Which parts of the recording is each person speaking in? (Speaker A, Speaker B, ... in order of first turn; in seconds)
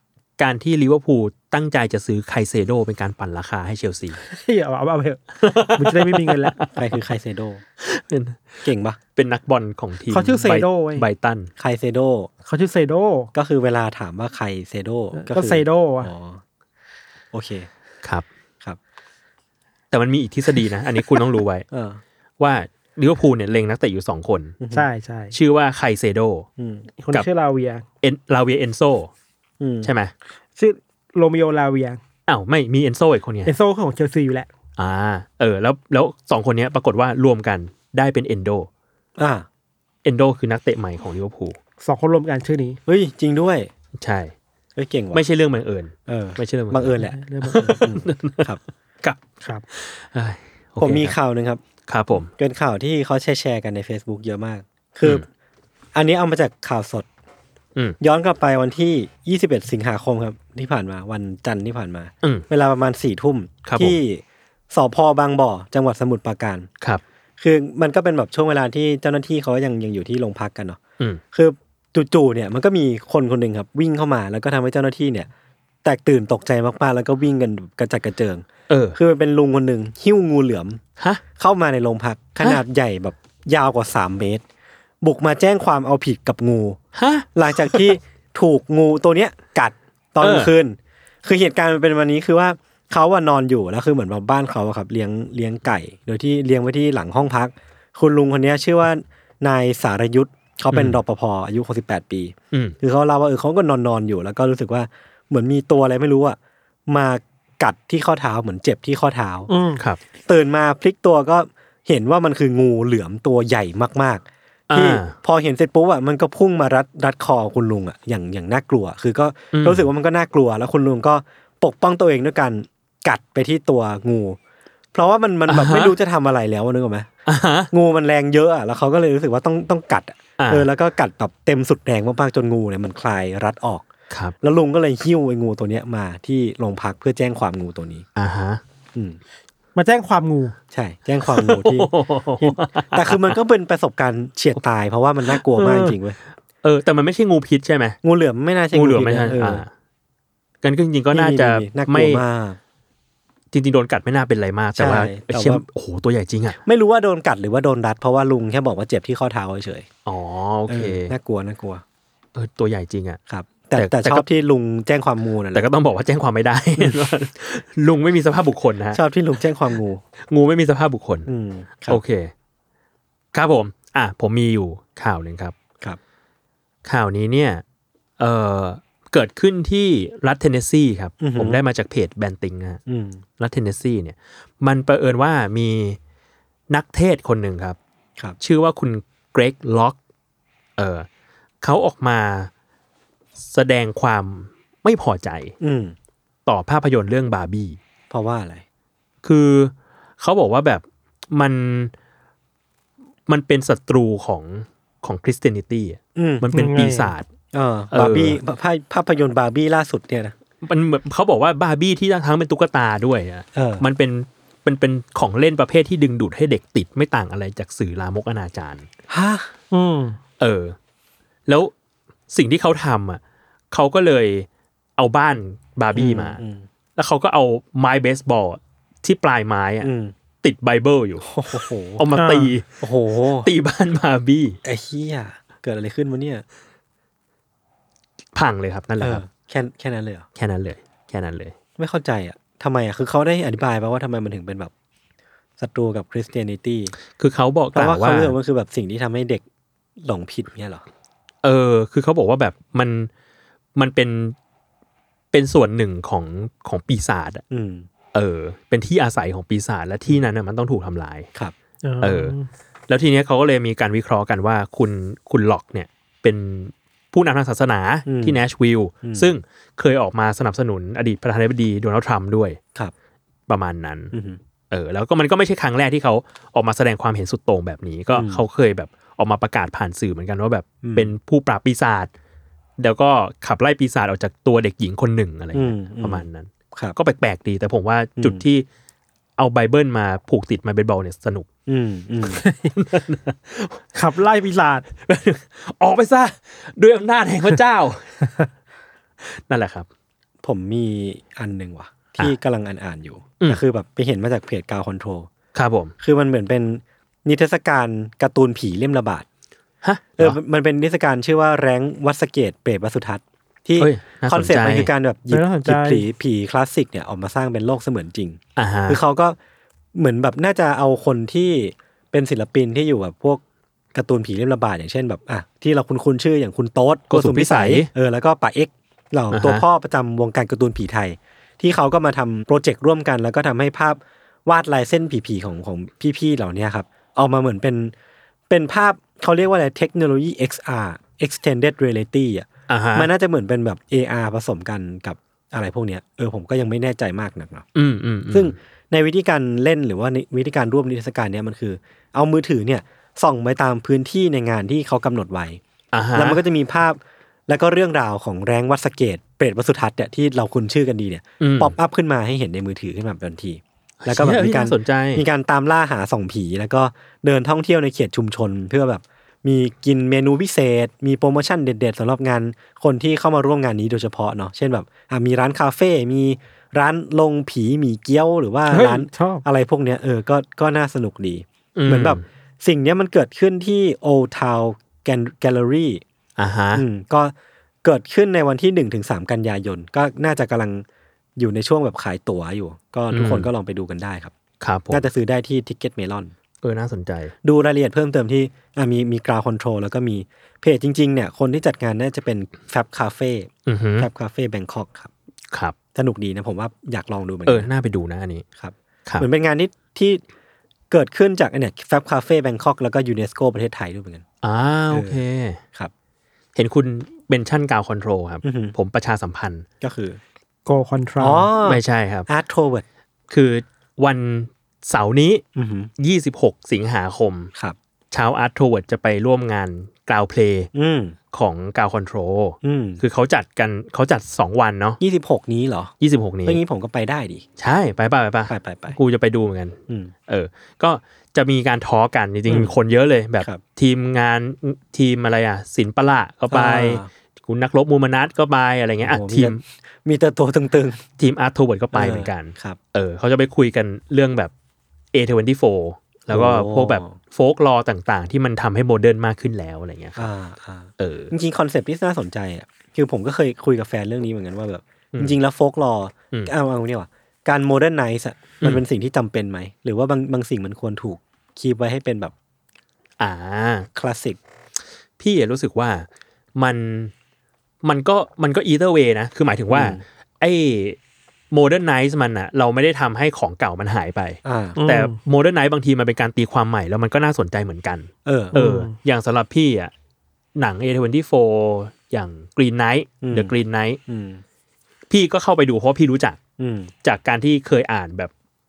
Speaker A: 0.4-4.2, 5.4-6.6, 7.8-11.5, 19.9-21.6, 22.4-24.6, 25.3-26.5, 28.0-29.1, 29.8-30.1, 32.3-33.5, 34.8-38.7, 40.0-41.5, 44.0-44.3, 45.1-49.2, 49.7-51.1, 51.9-52.3, 63.6-64.0, 78.7-79.0, 86.9-87.9, 90.2-90.5, 100.7-101.0, 114.7-115.1, 119.5-119.8, 125.5-125.9, 127.2-127.7, 130.4-130.7, 138.2-138.6, 141.3-143.4, 145.3-146.0, 146.6-148.0, 148.7-149.7, 150.6-152.2, 153.5-156.6, 160.1-161.1, 162.3-163.2, 163.8-164.2, 165.5-169.0, 170.3-171.3, 171.9-172.3, 173.3-175.5, 176.8-177.6, 178.2-182.8, 183.4-186.0, 186.7-187.8, 188.4-190.0, 190.8-191.1, 191.6-192.5, 193.4-195.5, 196.4-197.8, 199.2-201.9, 203.3-207.3, 207.9-208.4, 210.6-218.9, 220.4-220.7, 221.5-221.7, 222.3-223.2, 223.7-226.4, 226.9-229.9, 230.4-232.7, 233.4-234.6, 238.3-239.2, 240.4-241.5, 247.2-248.3, 251.4-253.1, 253.8-254.3, 255.3-257.4, 258.1-261.3, 262.0-262.3, 262.9-272.6, 273.5-274.1, 274.7-282.1, 282.8-288.6, 289.4-291.5, 292.8-293.8, 295.0-298.2, 299.2-299.9, 305.5-305.9, 309.8-310.4, 313.8-314.9, 318.6-319.0, 327.1-327.9, 329.3-329.6, 342.7-343.1, 347.7-348.5, 355.9-356.4, 361.4-361.8, 364.0-365.2, 381.8-382.2, 386.4-386.8, 393.1-393.5, 394.6-395.0, 396.6-397.3, 403.6-404.1, 407.5-408.4, 414.4-415.6, 416.5-419.6, 421.6-422.3, 423.3-425.4, 426.0-427.5, 428.1-430.7, 431.3-435.0, 436.0-436.6, 437.6-449.6, 451.2-454.5, 455.1-460.3, 461.0-461.3, 473.2-473.9, 475.2-477.1, 477.8-481.0, 481.5-489.9, 490.6-494.0, 495.1-496.4, 497.0-498.3
Speaker B: 4.2-6.7, 10.1-11.1, 12.4-13.3, 15.1-16.1, 24.7-25.3, 27.0-27.8, 30.6-32.0, 33.5-34.5, 41.8-42.8, 46.9-47.8, 109.5-109.8, 139.8-140.6, 206.5-207.1, 219.7-220.2, 232.1-232.5, 261.8-262.5, 292.3-292.7, 293.9-294.8, 315.3-316.1, 378.7-379.4, 420.6-421.5, 484.8-485.2, 488.5-488.9
Speaker C: 6.8-7.6, 8.6-9.0, 11.6-12.3, 13.3-16.4, 17.3-17.7, 21.7-22.0, 24.6-24.9, 26.6-26.9, 29.6-29.9, 39.2-39.5, 42.9-43.7, 44.8-45.2, 46.1-48.6, 50.8-51.6, 52.2-55.3, 55.9-57.1, 58.0-66.7, 67.4-70.8, 71.3-75.3, 75.8-80.8, 81.4-84.4, 85.0-86.8, 87.3-109.5, 110.3-124.4, 124.9-127.1, 127.7-133.9, 134.4-138.1, 140.7-141.9, 142.4-146.2, 148.0-149.6, 151.1-152.6, 154.8-155.6, 156.6-159.9, 160.7-161.8, 163.3-165.7, 168.9-170.0, 171.3-172.0, 181.2-181.6, 182.9-183.2, 195.6-195.9, 198.1-198.6, 206.2-206.4, 207.5-210.3, 213.5-213.8, 219.1-219.5, 225.9-226.7, 229.8-230.1, 231.2-232.0, 232.8-233.5, 234.6-236.4, 239.0-240.2, 241.8-244.7, 245.6-246.9, 247.7-249.4, 250.0-250.8, 257.5-257.9, 268.1-268.4, 269.0-269.3, 274.1-274.4, 278.1-278.4, 280.8-281.1, 285.5-287.0, 288.2-288.4, 291.7-292.4, 300.4-305.3, 306.0-309.2, 310.2-319.4, 319.9-323.4, 323.9-337.9, 338.5-347.7, 348.3-355.6, 356.1-386.0, 386.7-390.8, 391.4-394.3, 394.9-396.3, 397.4-405.1, 405.9-407.7, 408.6-410.2, 410.9-414.2, 414.9-415.2, 418.4-418.7, 419.8-420.2, 421.2-422.8, 425.5-425.9, 430.7-431.1, 432.6-433.0, 435.0-435.9, 436.4-437.4, 438.5-439.0, 442.5-442.7, 446.5-447.1, 449.0-451.0, 451.9-452.8, 456.3-457.1, 460.2-472.3, 473.9-474.4, 479.7-480.0, 484.4-484.8, 488.2-488.5, 493.2-493.5, 494.1-494.4, 496.6-496.9